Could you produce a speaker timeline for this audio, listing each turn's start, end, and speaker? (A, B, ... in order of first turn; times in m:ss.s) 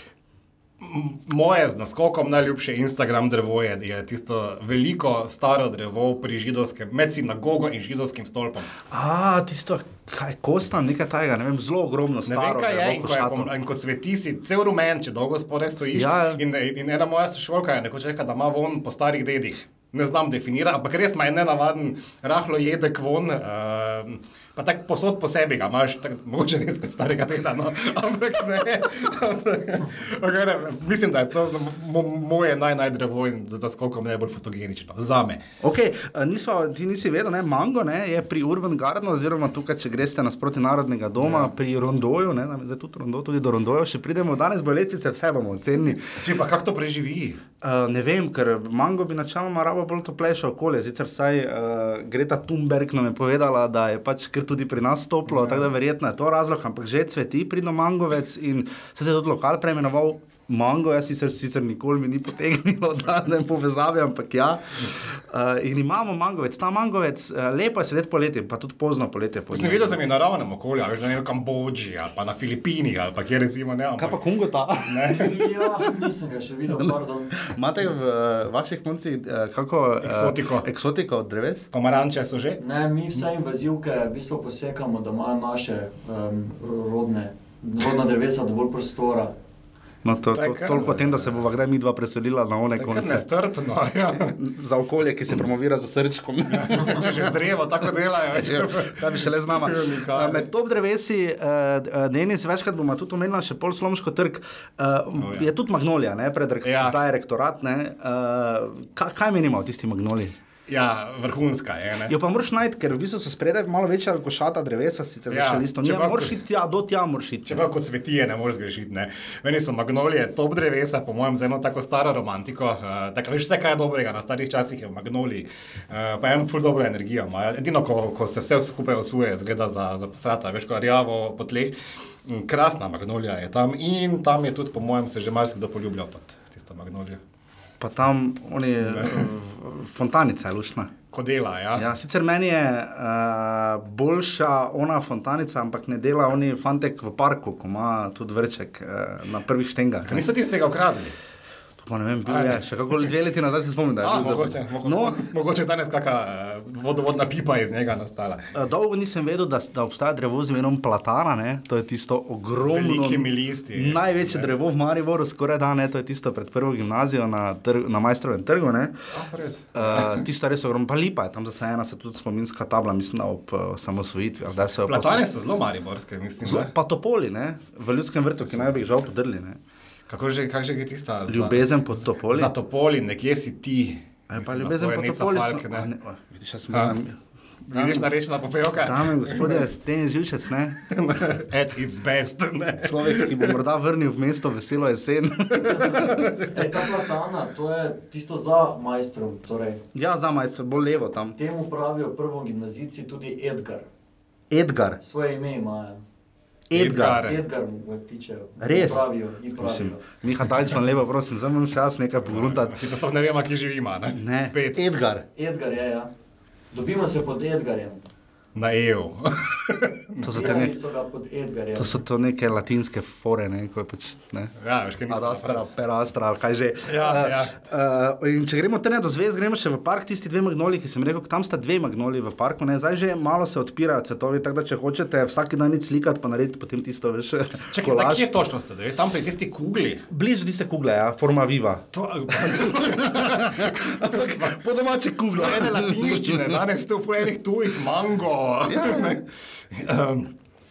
0:00.8-0:08.7 A
0:08.9-0:13.5 B
0:12.2-0:35.4 A
0:15.9-0:16.4 B
0:35.6-0:46.2 B
0:41.2-0:41.5 A
0:46.1-0:47.4 A
0:47.6-1:10.0 B
0:55.3-0:55.7 A
1:09.5-1:14.2 A
1:14.0-1:15.9 B
1:14.8-1:15.4 A
1:15.1-1:17.5 C
1:16.8-1:21.7 B
1:20.0-1:20.6 A
1:21.7-1:22.6 A
1:22.6-1:29.3 C
1:30.0-1:33.3 B
1:30.3-1:31.4 A
1:32.8-1:34.4 A
1:34.1-1:37.3 B
1:36.5-1:40.5 A
1:38.3-1:50.3 B
1:45.2-1:45.5 A
1:46.6-1:47.0 A
1:50.7-1:52.1 A
1:52.1-1:57.6 B
1:55.3-1:56.4 A
1:57.4-2:17.2 A
2:17.8-2:20.9 B
2:18.9-2:19.3 A
2:21.1-2:21.8 A
2:21.8-2:30.3 B
2:30.0-2:31.2 A
2:31.8-2:35.3 B
2:32.2-2:32.6 A
2:34.0-2:38.4 A
2:38.5-2:48.9 B
2:42.6-2:44.5 A
2:49.1-2:50.2 A
2:49.7-2:55.2 B
2:54.8-2:56.7 A
2:56.4-2:59.6 B
2:58.4-2:58.8 A
3:00.1-3:01.7 A
3:01.3-3:02.5 B
3:02.2-3:05.9 A
3:04.3-3:07.2 B
3:06.7-3:07.0 A
3:07.7-3:08.1 B
3:07.7-3:09.7 A
3:08.8-3:10.9 B
3:10.8-3:13.6 A
3:12.8-3:16.5 B
3:15.6-3:19.8 C
3:15.8-3:16.4 A
3:19.9-3:21.4 B
3:21.4-3:23.9 C
3:24.5-3:25.0 B
3:25.0-3:26.0 C
3:26.7-3:27.3 B
3:26.7-3:27.4 A
3:27.2-3:30.0 C
3:28.6-3:29.0 B
3:29.6-3:32.8 B
3:32.2-3:34.8 A
3:34.2-3:35.2 B
3:35.4-3:36.1 C
3:36.7-3:38.0 C
3:38.5-3:40.4 A
3:40.2-3:40.7 B
3:40.2-3:42.0 C
3:41.8-3:44.5 B
3:44.6-3:45.6 A
3:45.1-3:58.3 B
3:46.8-3:47.5 A
3:57.7-4:00.0 A
4:00.1-4:06.6 B
4:01.9-4:04.6 A
4:05.3-4:10.3 A
4:08.7-4:09.2 B